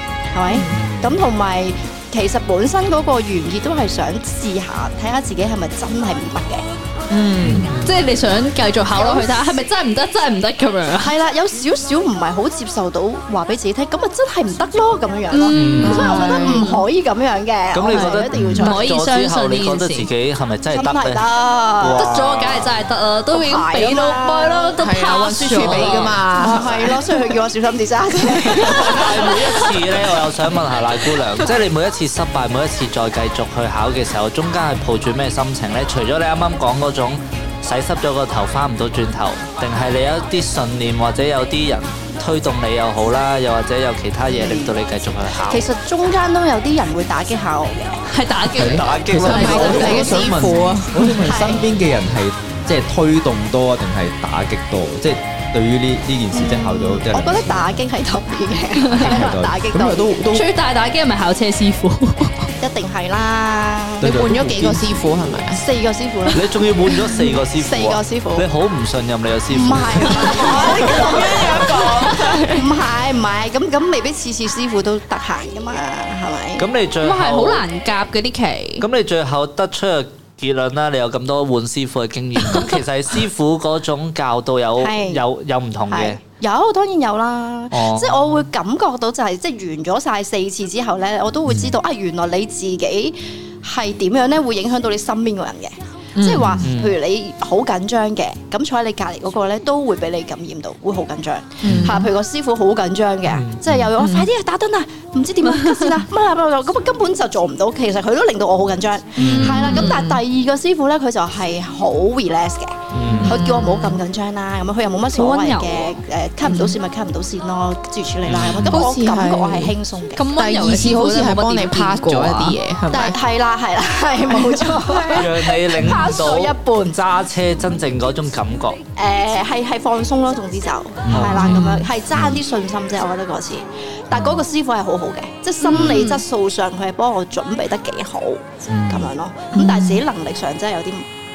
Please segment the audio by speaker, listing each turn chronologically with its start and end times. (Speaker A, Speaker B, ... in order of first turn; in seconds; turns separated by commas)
Speaker A: 0.3-6.7, Speaker B: 0.5-0.9, Speaker B: 7.1-7.7, Speaker C: 7.4-7.9, Speaker D: 7.8-11.1, Speaker A: 8.9-9.6, Speaker A: 11.0-18.9, Speaker B: 15.3-16.8, Speaker D: 15.5-16.2, Speaker C: 15.5-16.3, Speaker C: 17.7-21.2, Speaker D: 17.9-20.1, Speaker A: 20.7-22.1, Speaker C: 21.8-22.7, Speaker D: 21.9-26.7, Speaker A: 23.3-24.8, Speaker B: 24.8-27.0, Speaker A: 25.6-29.6, Speaker B: 28.5-29.2, Speaker C: 28.7-45.6, Speaker A: 44.2-44.8, Speaker A: 45.3-48.0, Speaker D: 48.1-50.2, Speaker E: 48.5-57.8, Speaker C: 48.6-50.2, Speaker B: 49.2-51.2, Speaker A: 51.2-51.7, Speaker A: 56.3-60.3, Speaker D: 58.8-59.1, Speaker E: 58.9-60.5, Speaker D: 60.3-62.5, Speaker A: 62.6-64.2, Speaker E: 64.0-64.9, Speaker B: 64.0-65.6, Speaker A: 65.2-68.5, Speaker C: 66.3-70.7, Speaker A: 69.5-76.7, Speaker B: 70.1-72.7, Speaker C: 76.6-77.6, Speaker D: 77.0-78.8, Speaker C: 78.8-86.2, Speaker A: 84.8-85.2, Speaker A: 85.9-120.3, Speaker C: 87.7-88.3, Speaker B: 96.1-96.7, Speaker C: 96.6-96.9, Speaker B: 101.6-102.1, Speaker C: 103.3-103.9, Speaker B: 104.0-104.2, Speaker C: 109.2-109.9, Speaker B: 109.2-109.9, Speaker C: 112.9-113.4, Speaker B: 113.2-114.0, Speaker D: 115.1-116.0, Speaker B: 116.4-116.8, Speaker C: 118.2-118.8, Speaker B: 118.7-119.8, Speaker D: 120.2-122.6, Speaker B: 120.3-123.2, Speaker A: 122.9-127.0, Speaker B: 124.3-125.2, Speaker C: 125.1-128.8, Speaker A: 128.9-141.1, Speaker C: 131.1-131.7, Speaker E: 131.2-131.5, Speaker B: 131.5-131.9, Speaker D: 135.8-136.2, Speaker E: 138.7-139.1, Speaker B: 139.5-140.0